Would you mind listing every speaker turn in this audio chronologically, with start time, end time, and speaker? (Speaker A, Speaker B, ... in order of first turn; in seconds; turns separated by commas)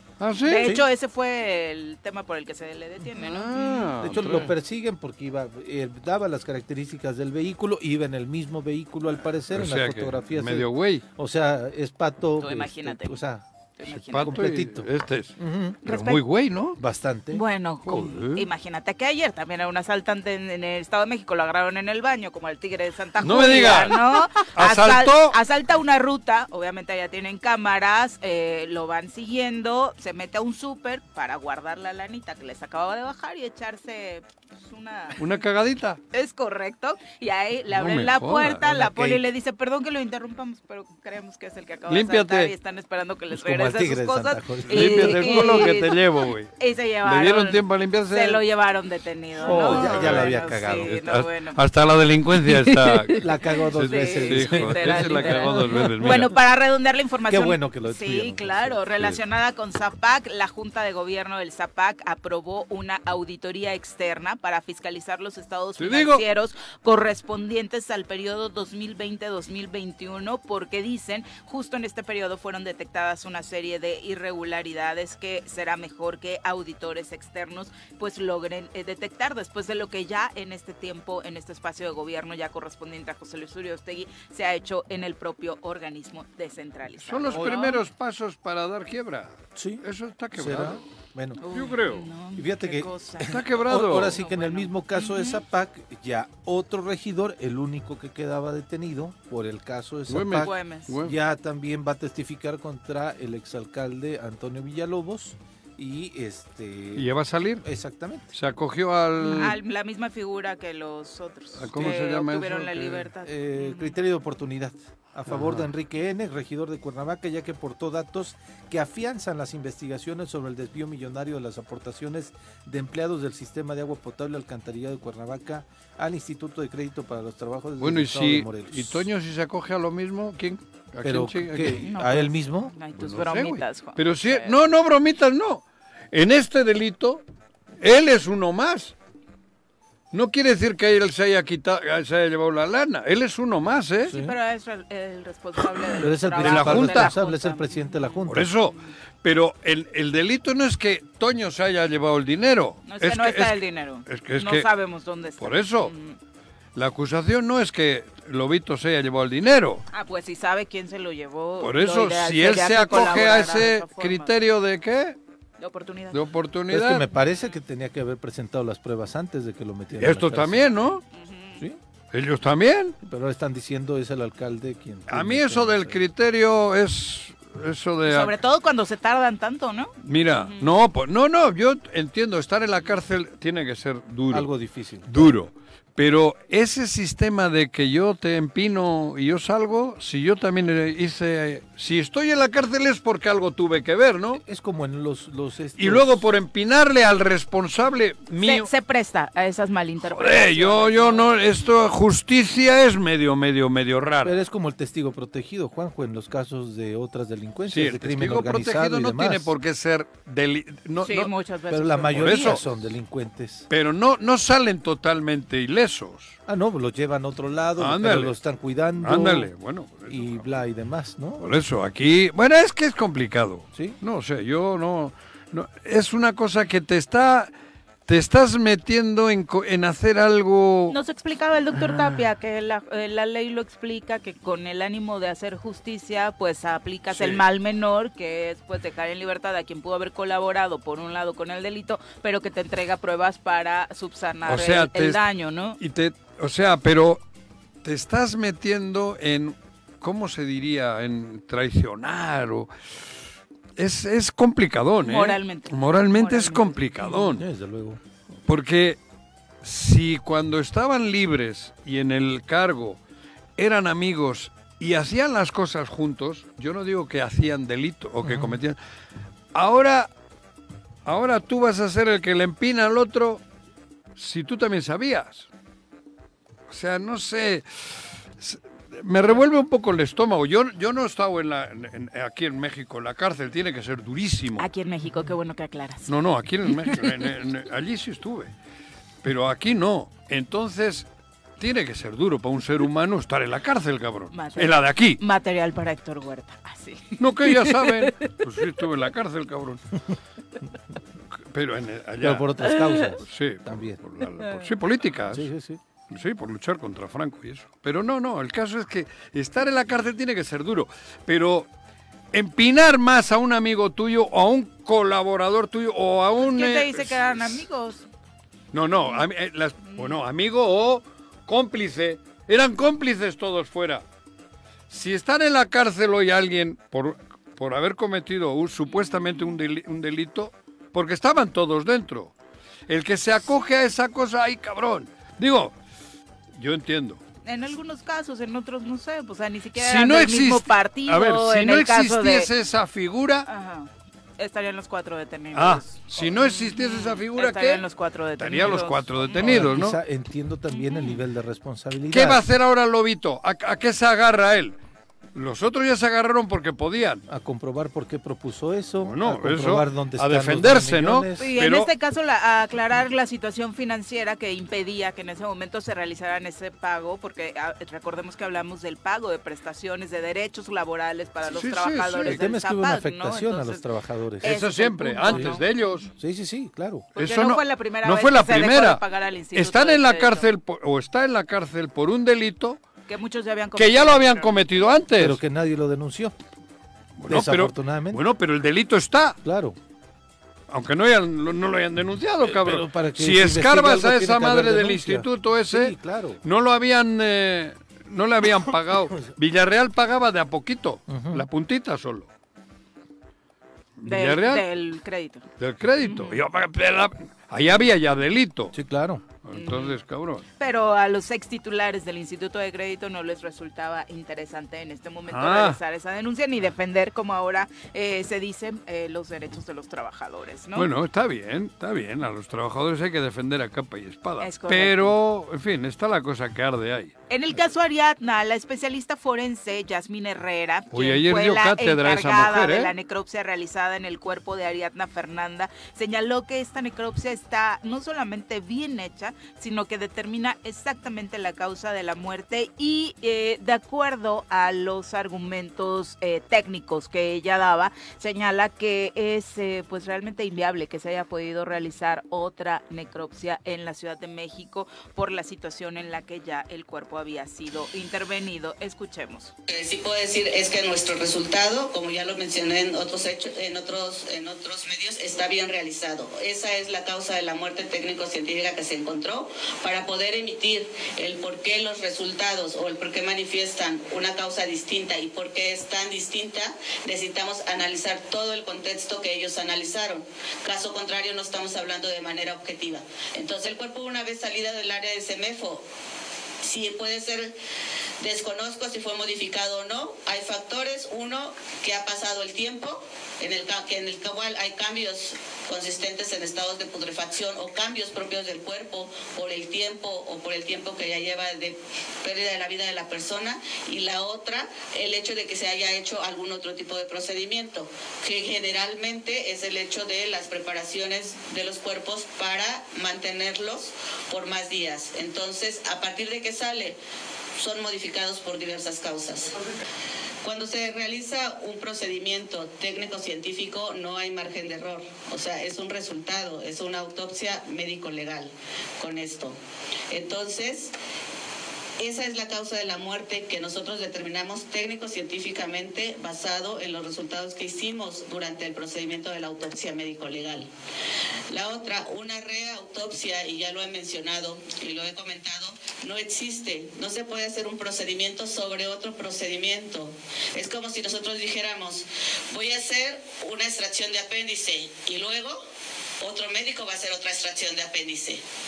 Speaker A: 0.2-0.7, Speaker B: 0.5-4.0, Speaker A: 3.2-4.5, Speaker C: 4.0-13.4, Speaker A: 9.5-11.0, Speaker B: 12.4-13.2, Speaker B: 13.8-14.4, Speaker A: 13.9-16.8, Speaker C: 14.2-15.8, Speaker B: 15.9-16.2, Speaker C: 16.8-17.4, Speaker B: 17.3-35.2, Speaker A: 17.9-18.5, Speaker A: 23.2-25.4, Speaker A: 35.2-36.0, Speaker B: 36.1-46.0, Speaker A: 37.7-38.6, Speaker C: 38.6-39.2, Speaker A: 41.9-42.5, Speaker C: 43.3-45.7, Speaker A: 44.7-46.5, Speaker B: 46.6-51.6, Speaker A: 47.0-48.4, Speaker C: 49.4-51.0, Speaker A: 49.4-56.4, Speaker B: 52.5-87.8, Speaker C: 53.2-56.3, Speaker C: 57.3-58.8, Speaker A: 65.8-66.2, Speaker A: 87.0-90.8, Speaker C: 89.6-91.4, Speaker B: 91.4-93.4, Speaker A: 91.5-92.1, Speaker C: 92.4-107.1, Speaker A: 93.3-94.2, Speaker B: 94.1-95.4, Speaker A: 100.1-101.2, Speaker B: 100.4-100.9, Speaker A: 107.0-107.7, Speaker C: 107.6-108.3, Speaker A: 108.3-109.6, Speaker B: 109.2-114.0, Speaker A: 111.6-113.1, Speaker C: 111.7-112.0, Speaker C: 113.2-129.1, Speaker A: 115.3-115.7, Speaker A: 127.8-131.8, Speaker C: 131.0-132.7, Speaker B: 131.8-134.6, Speaker A: 133.0-137.2, Speaker A: 137.8-138.9, Speaker A: 140.1-144.1, Speaker C: 144.1-144.3, Speaker B: 144.1-148.2, Speaker C: 146.0-148.5, Speaker A: 146.4-147.2, Speaker A: 148.3-154.7, Speaker B: 152.9-156.2, Speaker A: 155.4-155.9, Speaker A: 156.8-159.8, Speaker B: 159.9-164.3, Speaker A: 161.6-165.2, Speaker B: 165.6-166.2, Speaker A: 166.1-167.1, Speaker C: 166.7-171.0, Speaker A: 170.0-171.0, Speaker B: 171.1-171.6, Speaker A: 172.1-173.0, Speaker C: 173.0-176.0, Speaker A: 175.1-178.4, Speaker B: 178.1-180.7, Speaker A: 180.0-184.5, Speaker C: 184.3-185.4, Speaker A: 185.1-194.4, Speaker C: 194.4-196.2, Speaker A: 195.8-198.7, Speaker B: 198.4-201.3, Speaker A: 200.0-204.4, Speaker C: 204.2-209.5, Speaker A: 207.7-211.3, Speaker B: 211.0-212.6, Speaker C: 211.7-213.7, Speaker A: 212.1-212.7, Speaker A: 213.7-216.4, Speaker C: 216.5-219.5, Speaker A: 217.8-218.4, Speaker A: 219.0-220.6, Speaker C: 220.1-221.5, Speaker A: 221.4-227.5, Speaker A: 228.1-231.0, Speaker B: 230.9-245.8, Speaker A: 237.1-237.4, Speaker A: 244.5-245.2, Speaker A: 245.8-247.2, Speaker A: 247.8-252.7, Speaker A: 253.8-257.4, Speaker B: 255.0-257.2, Speaker C: 257.3-258.0, Speaker A: 258.5-259.0, Speaker A: 259.6-263.0, Speaker A: 263.6-268.8, Speaker C: 268.2-268.6, Speaker A: 269.5-270.1, Speaker A: 271.1-273.4, Speaker A: 274.2-275.5, Speaker A: 276.7-277.7, Speaker A: 278.4-284.7, Speaker B: 284.6-286.1, Speaker A: 286.1-288.5, Speaker B: 286.7-287.1, Speaker A: 289.2-291.1, Speaker A: 291.6-295.2, Speaker B: 294.3-298.2, Speaker A: 297.2-300.0, Speaker A: 301.5-305.5, Speaker C: 302.2-304.0, Speaker C: 305.3-305.8, Speaker A: 306.1-311.7, Speaker A: 312.3-317.6, Speaker B: 316.4-318.1, Speaker A: 318.7-324.0, Speaker B: 319.9-320.2, Speaker A: 324.9-332.4, Speaker B: 328.9-329.5, Speaker A: 332.9-335.8, Speaker A: 336.5-337.2, Speaker B: 337.4-342.5, Speaker A: 339.8-343.5, Speaker B: 343.5-349.7, Speaker A: 345.5-347.9, Speaker A: 348.4-350.0, Speaker C: 349.4-352.4, Speaker B: 350.7-351.2, Speaker A: 352.1-354.8, Speaker A: 355.4-357.2, Speaker C: 357.3-361.5, Speaker A: 359.0-361.9, Speaker B: 361.4-373.9, Speaker A: 371.5-372.4, Speaker C: 372.2-374.6, Speaker B: 374.4-375.7, Speaker A: 374.4-376.1, Speaker C: 375.3-375.6, Speaker C: 376.1-377.1, Speaker B: 377.2-380.5, Speaker A: 377.2-379.0, Speaker A: 379.5-382.8, Speaker B: 383.1-384.8, Speaker A: 383.8-385.4, Speaker C: 385.2-386.4, Speaker A: 387.2-389.4, Speaker C: 387.3-388.2, Speaker C: 389.4-389.8, Speaker A: 390.7-402.3, Speaker C: 392.4-396.4, Speaker C: 401.1-401.5, Speaker A: 404.0-404.6, Speaker B: 404.1-405.4, Speaker A: 405.6-408.8, Speaker B: 406.0-406.4, Speaker C: 408.7-409.2, Speaker A: 409.4-410.5, Speaker B: 409.6-410.0, Speaker B: 410.6-420.9, Speaker A: 415.3-415.8, Speaker A: 420.8-427.1, Speaker B: 424.4-425.1, Speaker B: 427.3-459.5, Speaker A: 430.9-432.9, Speaker D: 459.7-485.8, Speaker D: 486.6-487.5, Speaker D: 488.2-517.0, Speaker D: 517.6-519.6, Speaker D: 520.4-529.6, Speaker D: 530.1-530.9, Speaker D: 532.0-540.7, Speaker D: 541.5-555.6, Speaker D: 556.2-558.4